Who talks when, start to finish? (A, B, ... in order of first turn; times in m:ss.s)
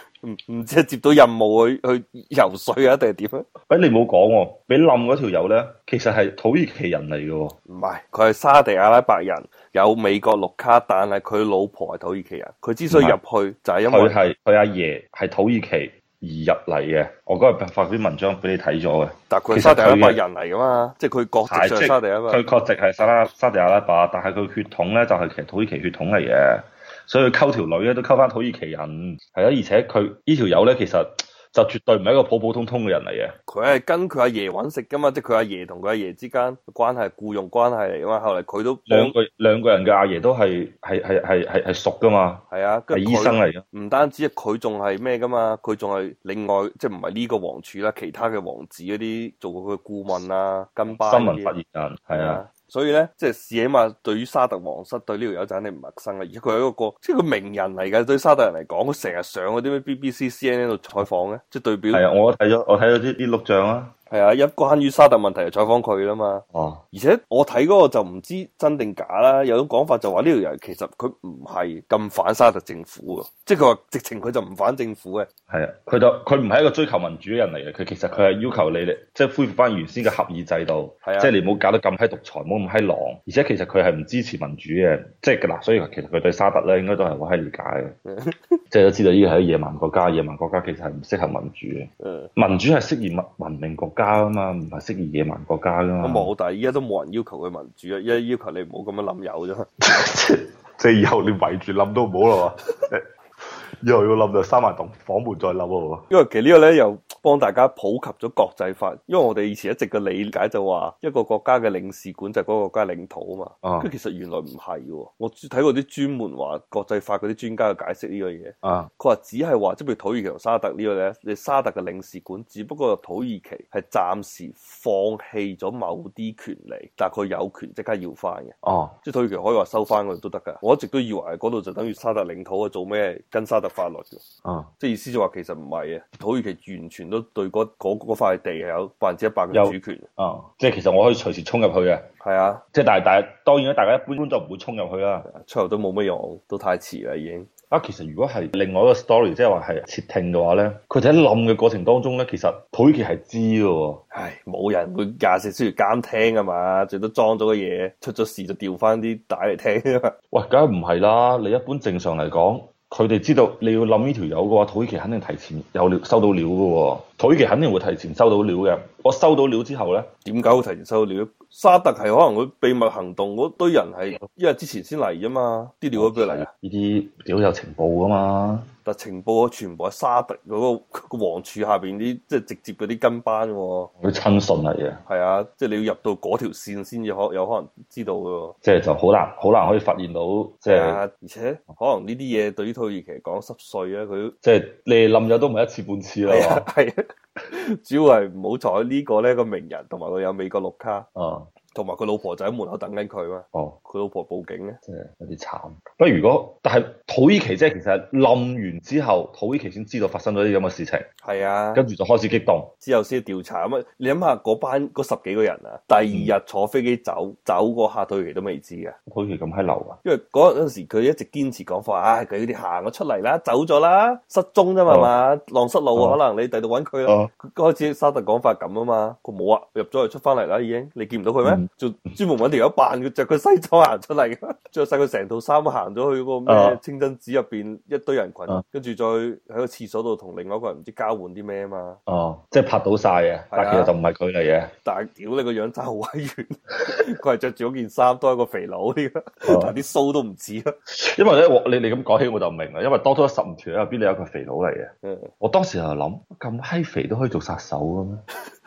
0:00.2-0:03.5 A
0:03.7-0:07.6 B
0:07.7-0:14.2 A
0:12.9-0:13.2 B
0:13.9-0:20.2 B
0:19.3-0:22.4 A
0:21.5-0:33.4 B
0:33.5-0:39.2 A
0:38.9-0:43.6 B
0:42.5-0:51.5 A
0:51.0-0:52.4 B
0:52.1-1:02.0 A
1:01.9-1:03.9 B
1:04.1-1:15.3 A
1:06.5-1:06.8 B
1:15.5-1:28.0 B
1:21.0-1:21.3 A
1:28.1-1:28.6 A
1:28.7-1:36.3 B
1:32.0-1:32.3 A
1:36.0-1:39.7 A
1:39.8-1:46.0 B
1:46.1-2:14.2 A
1:53.6-1:53.9 B
1:58.6-1:58.9 B
2:08.6-2:09.0 B
2:14.4-2:14.7 B
2:14.8-2:20.1 A
2:19.5-2:22.1 B
2:22.2-2:22.6 A
2:22.7-2:25.3 B
2:25.3-2:27.5 A
2:27.7-2:34.0 B
2:34.1-2:40.1 A
2:40.3-2:50.1 B
2:50.2-2:56.5 A
2:56.0-2:58.7 B
2:58.8-3:03.9 A
3:04.0-3:05.0 B
3:05.1-3:08.6 A
3:08.6-3:11.0 B
3:10.7-3:14.4 A
3:14.4-3:16.7 B
3:16.2-3:21.1 A
3:21.2-3:21.5 B
3:21.7-3:24.8 A
3:24.9-3:31.1 B
3:31.2-3:31.8 A
3:31.8-3:32.7 B
3:32.8-3:39.0 A
3:36.1-3:36.4 B
3:39.1-3:40.0 B
3:40.0-4:02.0 A
3:44.9-3:45.1 B
3:47.1-3:47.3 B
3:56.5-3:56.8 B
4:02.1-4:04.7 B
4:03.5-4:03.9 A
4:04.8-4:10.7 A
4:09.4-4:09.8 B
4:10.9-4:14.9 B
4:15.0-4:15.3 A
4:15.4-4:18.2 B